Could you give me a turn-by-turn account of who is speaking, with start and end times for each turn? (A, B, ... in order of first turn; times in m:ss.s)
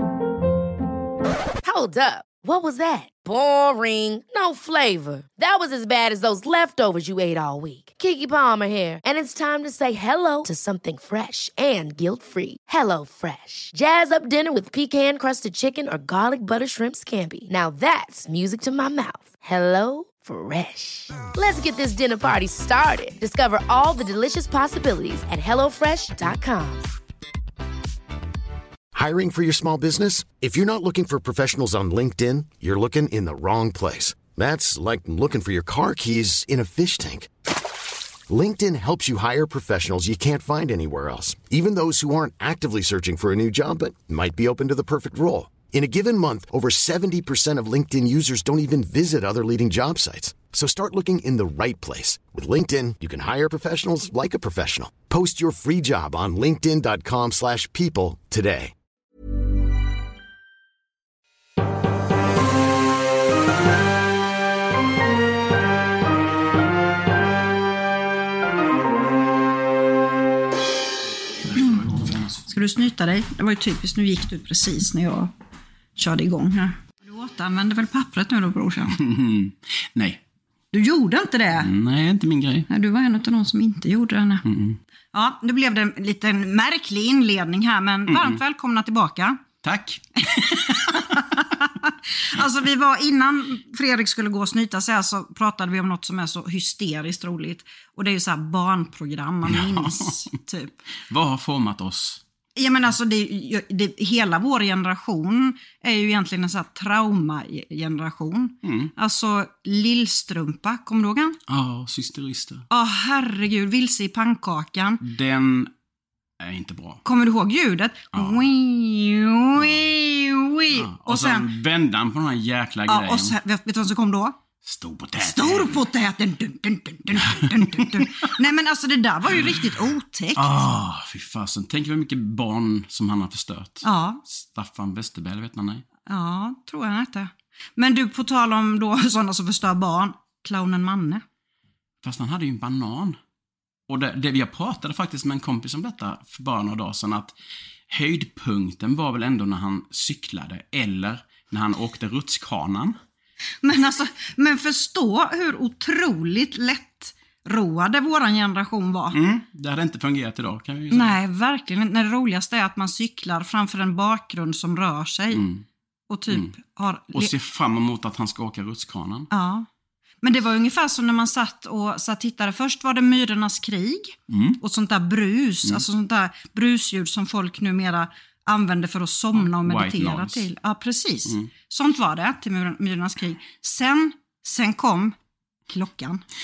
0:01.6-0:26.9 A
0:28.9-0:37.3 B
0:38.3-0:58.7 B
1:11.3-1:12.4 C
1:12.5-1:15.3 D
1:16.0-1:19.0 D
1:18.9-1:20.2 C
1:20.7-1:21.7 D
1:21.5-1:22.7 C
1:22.7-1:24.4 D
1:24.4-1:24.8 C
1:25.1-1:29.4 D
1:28.1-1:28.4 C
1:29.6-1:31.3 C
1:30.5-1:40.8 D
1:39.4-1:40.3 C
1:41.1-1:42.2 C
1:42.6-1:51.4 D
1:48.6-1:48.9 C
1:51.5-1:52.6 C
1:52.7-1:55.0 D
1:55.0-1:55.7 C
1:56.4-1:57.0 C
1:57.0-2:01.5 D
1:58.1-1:58.4 C
1:59.6-1:59.9 C
2:00.7-2:03.4 C
2:02.9-2:04.4 D
2:04.6-2:05.8 C
2:05.2-2:10.6 D
2:07.2-2:08.3 C
2:09.3-2:09.8 C
2:10.4-2:15.8 C
2:13.8-2:14.2 D
2:16.1-2:21.2 D
2:22.0-2:23.2 C
2:23.9-2:27.3 C
2:27.9-2:33.0 C
2:33.6-2:39.2 D
2:39.1-2:41.2 C
2:40.9-2:45.4 D
2:45.3-2:45.6 C
2:46.1-2:47.3 D
2:46.3-2:46.5 C
2:47.1-2:49.3 C
2:49.3-2:49.7 D
2:50.2-3:05.1 D
2:54.3-2:54.6 C
2:59.3-3:00.5 C
3:01.2-3:01.5 C
3:05.7-3:06.2 D